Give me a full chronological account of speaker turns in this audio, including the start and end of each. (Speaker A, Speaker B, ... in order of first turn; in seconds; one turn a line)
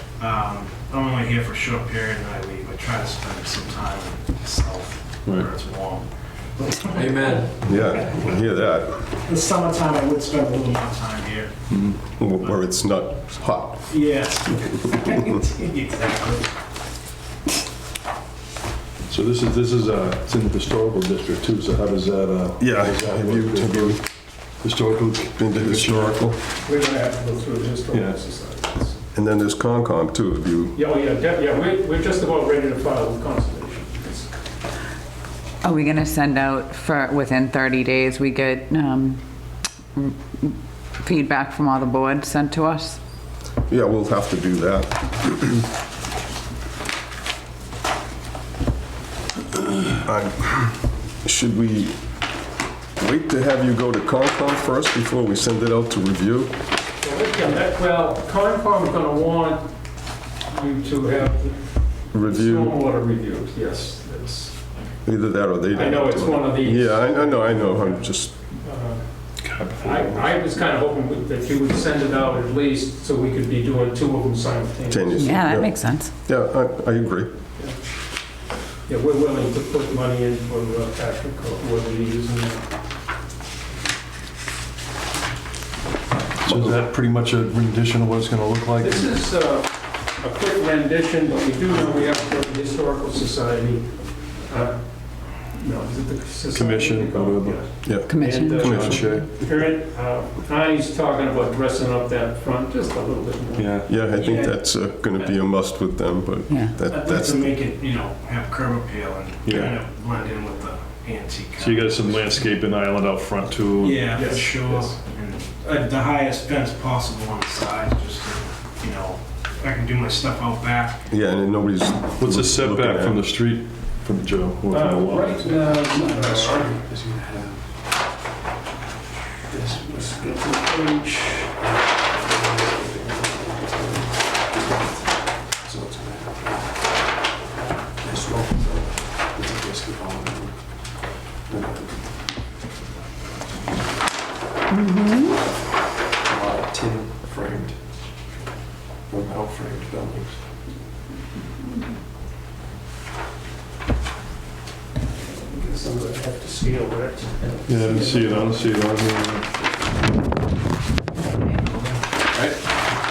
Speaker A: 0.2-7.5
Speaker B: 5.2-5.5
Speaker C: 7.0-7.7
Speaker D: 7.6-9.1
Speaker A: 9.2-11.7
Speaker B: 11.7-12.0
Speaker D: 12.1-14.2
Speaker A: 13.9-16.5
Speaker B: 19.1-24.0
Speaker D: 22.6-24.0
Speaker B: 24.6-26.3
Speaker D: 25.4-26.4
Speaker E: 26.5-29.0
Speaker B: 27.9-28.2
Speaker D: 29.1-30.8
Speaker E: 30.8-34.4
Speaker F: 35.6-39.2
Speaker F: 40.0-43.0
Speaker D: 43.7-45.7
Speaker D: 50.0-52.0
Speaker D: 53.0-56.6
Speaker E: 57.0-65.0
Speaker D: 62.1-62.8
Speaker D: 65.0-68.5
Speaker E: 65.7-75.4
Speaker B: 69.4-70.4
Speaker D: 74.9-77.3
Speaker F: 75.2-76.1
Speaker E: 78.9-82.7
Speaker B: 86.4-89.2
Speaker D: 86.5-86.8
Speaker E: 88.8-105.3
Speaker B: 96.5-97.8
Speaker D: 97.8-99.2
Speaker F: 98.0-99.1
Speaker B: 98.6-99.3
Speaker B: 103.6-104.0
Speaker D: 103.9-107.5
Speaker F: 106.5-106.7
Speaker A: 106.8-112.3
Speaker B: 109.5-109.7
Speaker B: 111.6-114.1
Speaker A: 113.8-121.1
Speaker E: 114.2-114.9
Speaker D: 121.1-123.2
Speaker B: 122.2-125.7
Speaker E: 124.7-126.8
Speaker C: 125.7-127.7
Speaker E: 129.5-131.6
Speaker C: 132.2-136.9
Speaker C: 138.0-140.6
Speaker C: 141.5-142.1
Speaker F: 144.7-145.4
Speaker C: 146.2-147.8
Speaker C: 149.1-150.4
Speaker E: 155.4-158.7
Speaker B: 157.7-159.7
Speaker C: 162.3-162.6